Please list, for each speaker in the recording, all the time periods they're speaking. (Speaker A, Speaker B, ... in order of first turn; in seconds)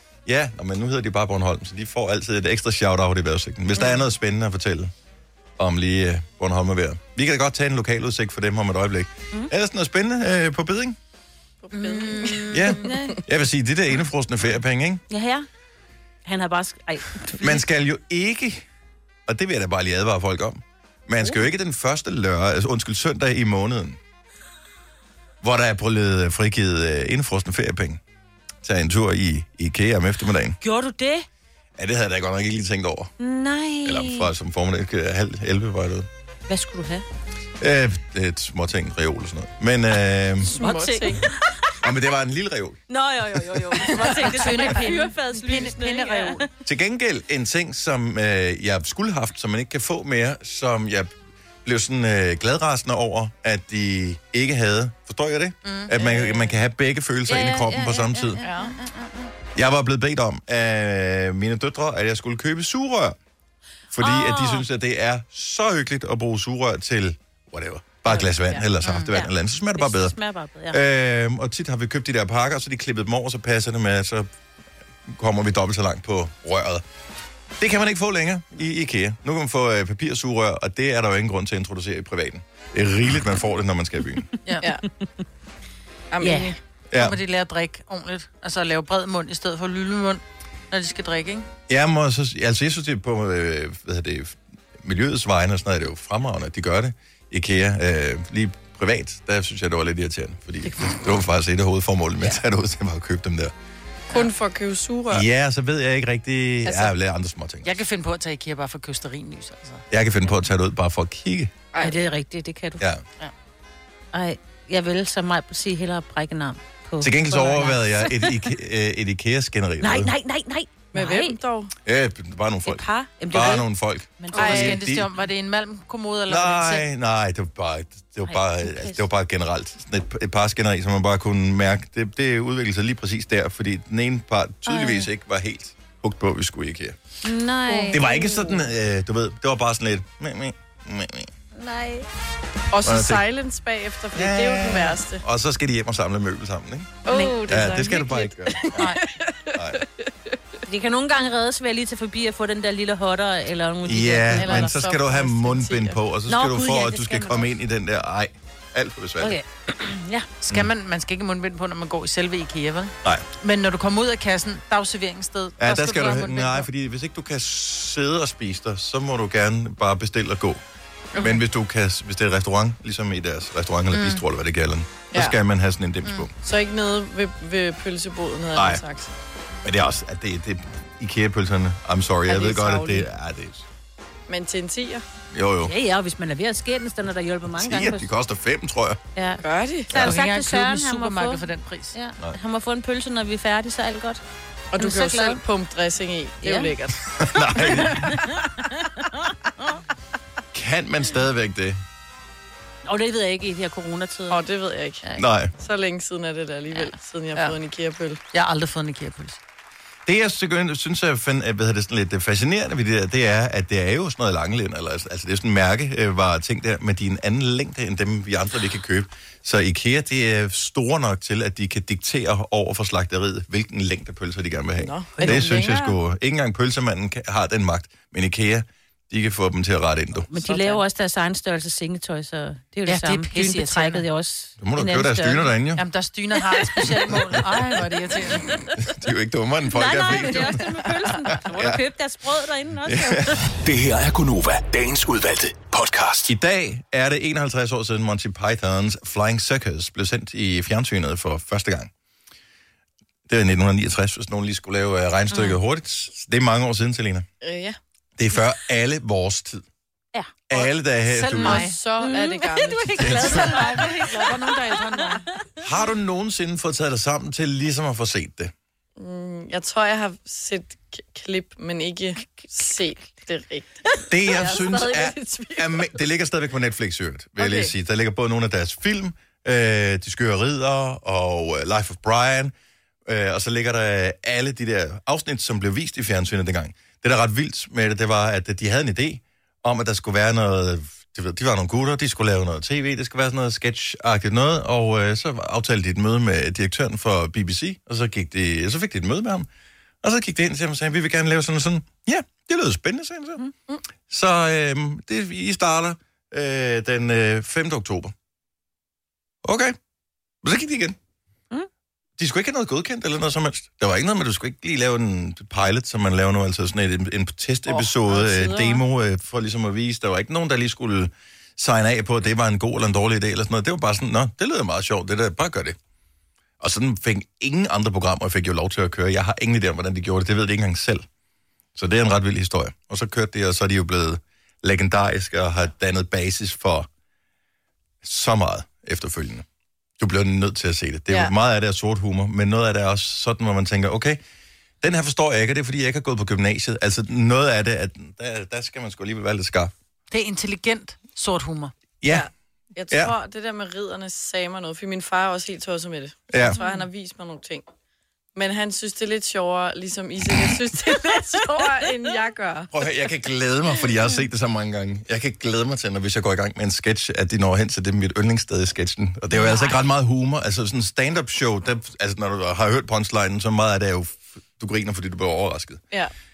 Speaker A: 0.3-4.9, 5.6-11.0, 12.5-15.0, 17.3-18.6, 19.3-24.0, 25.4-28.0, 28.6-30.6, 31.8-33.1, 33.8-36.1, 37.6-40.6, 41.8-42.8, 46.6-58.4, 59.5-63.2, 63.9-70.2, 70.7-74.3, 75.0-76.8, 77.6-84.2, 86.9-87.2, 91.7-103.5, 105.1-107.8, 109.9-111.5, 117.0-120.1, 121.8-125.1, 126.3-137.0, 137.9-141.3, 142.8-143.3, 144.1-148.8, 149.5-149.8, 153.8-159.4, 165.6-170.6, 171.1-176.3, 178.6-178.8, 179.6-183.7, 185.3-185.7, 187.5-189.0, 189.9-190.2, 197.2-198.2, 200.5-201.8, 205.2-205.5, 210.1-230.3, 234.6-235.8, 238.8-241.8, 242.9-243.3, 246.3-251.9, 253.3-257.3, 258.2-259.6, 260.5-261.7, 263.0-263.7, 265.6-268.5, 274.1-282.5, 283.1-299.5, 300.0-303.4, 304.1-308.1, 309.4-309.8, 310.4-311.0, 312.2-325.8, 326.6-331.1, 331.8-336.9, 338.0-339.4, 340.0-344.2, 344.8-349.7, 352.0-352.3, 356.3-356.6, 362.7-375.8
Speaker B: 11.7-13.2, 40.4-41.2, 43.8-44.7, 56.0-56.5, 58.4-58.7, 68.1-68.6, 86.1-86.6, 104.1-105.2, 106.7-106.9, 120.9-121.7, 124.4-124.7, 137.7-138.5, 142.7-145.2, 147.1-150.4, 154.4-155.9, 171.2-171.4, 176.4-179.1, 182.3-183.1, 184.3-185.0, 189.4-189.9, 194.7-198.3, 204.3-205.1, 205.6-208.2, 224.8-226.0, 230.4-230.8, 257.4-257.8, 260.5-263.6, 269.0-275.9, 277.4-277.7, 317.7-318.8, 352.1-357.6, 358.4-362.7
Speaker C: 11.7-12.7, 44.1-46.5, 55.6-55.9, 68.8-69.1, 84.5-84.7, 87.0-91.5, 107.6-109.8, 124.3-126.8, 148.7-149.0, 160.4-166.7, 173.9-174.2, 190.0-191.9, 208.3-209.4, 232.9-234.0, 235.8-238.5, 261.4-261.7, 263.3-265.3, 350.1-351.7, 369.4-369.8
Speaker D: 12.8-13.2, 15.1-15.5, 16.3-17.6, 30.6-31.3, 33.2-34.3, 36.5-37.0, 40.5-41.8, 42.9-46.4, 57.3-59.3, 64.0-64.7, 69.1-70.8, 86.2-86.5, 111.8-112.8, 114.1-118.5, 119.8-121.4, 122.7-123.7, 124.2-124.8, 128.3-129.0, 134.7-135.1, 137.2-138.1, 141.6-142.1, 150.7-154.8, 156.3-157.5, 159.2-160.3, 185.7-188.1, 189.2-191.4, 191.9-194.2, 194.8-195.4, 196.4-196.7, 197.8-198.2, 202.9-204.5, 206.7-207.5, 230.3-235.5, 239.7-243.5, 255.3-255.6, 261.2-265.2
Speaker E: 243.6-246.3